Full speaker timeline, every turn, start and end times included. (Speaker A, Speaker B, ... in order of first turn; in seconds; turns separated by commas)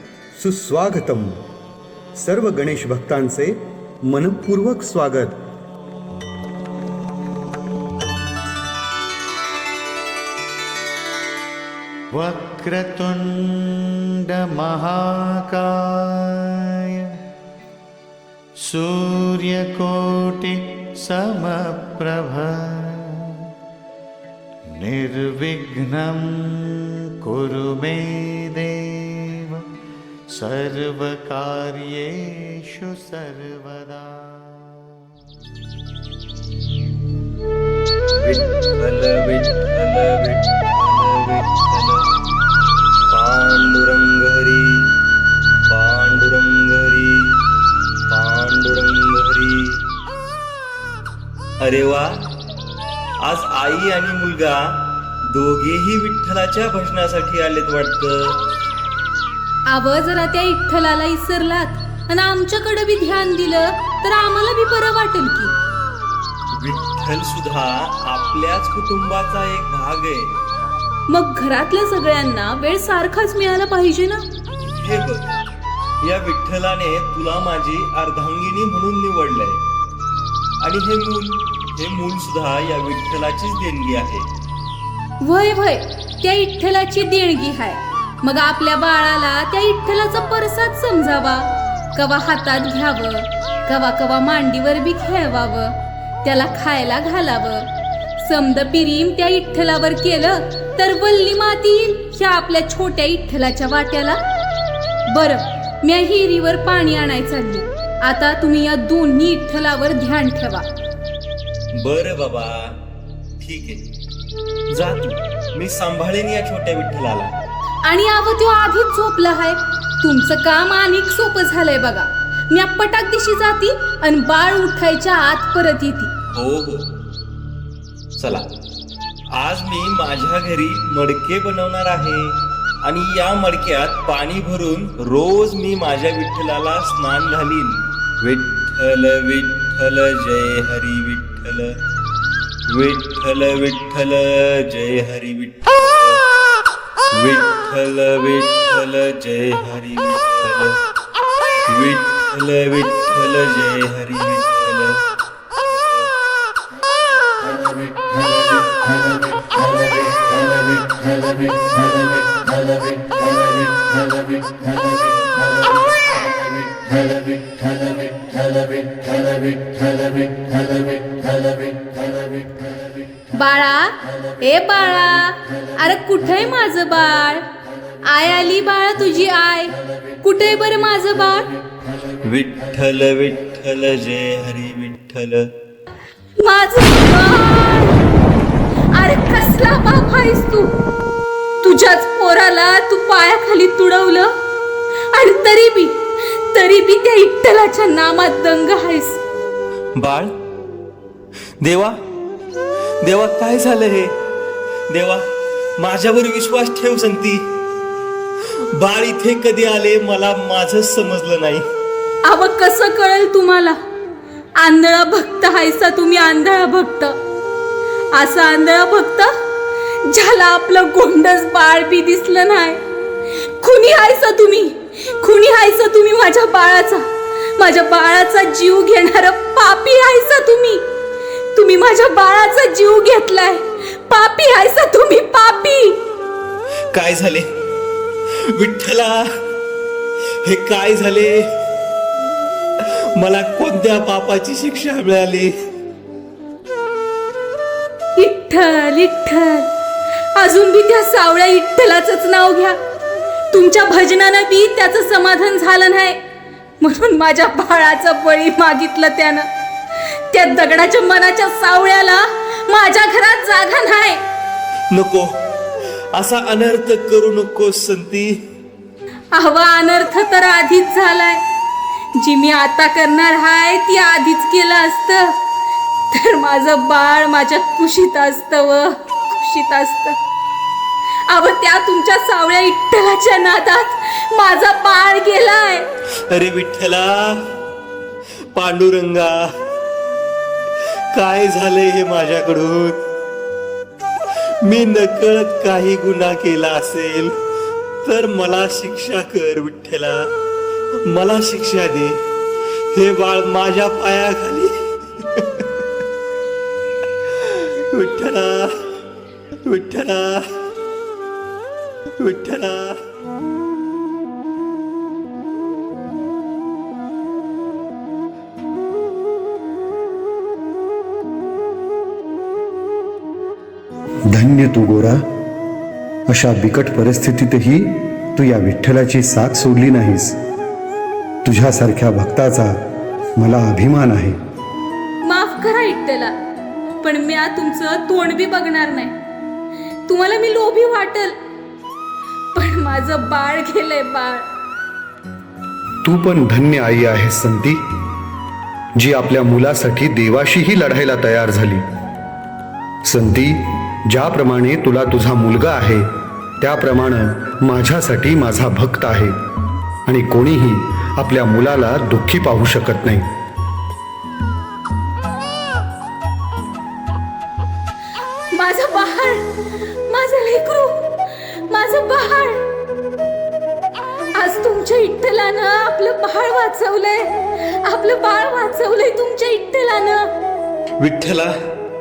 Speaker A: 0.3-1.4, Speaker A: 2.2-3.6, Speaker A: 4.1-5.4, Speaker B: 12.1-16.5, Speaker B: 18.6-23.1, Speaker B: 24.7-29.6, Speaker B: 30.3-34.7, Speaker C: 38.2-42.1, Speaker C: 43.1-44.8, Speaker C: 45.7-47.4, Speaker C: 48.1-49.8, Speaker C: 51.6-52.1, Speaker C: 53.2-58.4, Speaker D: 59.7-65.5, Speaker C: 66.5-70.3, Speaker D: 71.1-74.2, Speaker C: 74.7-79.6, Speaker C: 80.6-84.3, Speaker D: 85.2-104.2, Speaker D: 105.1-110.7, Speaker C: 111.8-112.7, Speaker C: 113.4-113.8, Speaker C: 114.7-117.3, Speaker D: 117.8-126.1, Speaker C: 126.3-126.9, Speaker C: 128.2-128.5, Speaker C: 129.3-141.8, Speaker C: 142.7-146.2, Speaker C: 147.1-150.8, Speaker C: 151.7-155.0, Speaker C: 155.7-156.1, Speaker D: 173.3-177.5, Speaker D: 178.0-181.5, Speaker C: 182.2-185.5, Speaker D: 186.4-188.0, Speaker D: 188.9-190.7, Speaker D: 191.6-194.3, Speaker D: 195.1-196.0, Speaker D: 196.5-199.2, Speaker C: 200.0-200.3, Speaker C: 201.6-202.0, Speaker C: 203.0-204.1, Speaker C: 204.9-205.2, Speaker C: 205.8-207.5, Speaker C: 208.7-211.7, Speaker D: 212.2-213.8, Speaker D: 214.6-217.2, Speaker D: 218.1-219.3, Speaker D: 220.0-222.8, Speaker D: 223.4-227.1, Speaker D: 227.6-230.8, Speaker D: 231.5-236.0, Speaker C: 236.9-237.5, Speaker C: 238.5-239.2, Speaker C: 240.4-241.5, Speaker C: 242.8-245.6, Speaker D: 248.2-249.7, Speaker D: 250.3-252.8, Speaker D: 253.5-256.2, Speaker D: 256.8-259.5, Speaker D: 260.3-264.2, Speaker C: 264.9-265.4, Speaker C: 266.1-268.4, Speaker D: 269.3-271.4, Speaker D: 272.2-275.3, Speaker D: 276.1-280.2, Speaker D: 281.3-285.9, Speaker C: 286.3-287.4, Speaker C: 288.5-289.5, Speaker C: 291.1-293.0, Speaker C: 294.6-297.3, Speaker C: 298.0-300.3, Speaker C: 301.1-302.2, Speaker C: 302.9-305.7, Speaker C: 307.4-308.8, Speaker C: 309.7-310.5, Speaker C: 312.2-313.0, Speaker A: 324.3-325.2, Speaker A: 326.3-330.4, Speaker A: 331.4-332.8, Speaker A: 333.4-334.4, Speaker D: 335.2-336.4, Speaker D: 337.0-339.1, Speaker D: 340.1-341.4, Speaker D: 342.5-344.5, Speaker A: 346.0-347.8, Speaker A: 349.0-351.9, Speaker A: 353.1-356.1, Speaker A: 356.6-359.4, Speaker A: 360.1-363.3, Speaker D: 368.5-372.6, Speaker D: 374.3-380.3, Speaker C: 381.0-381.5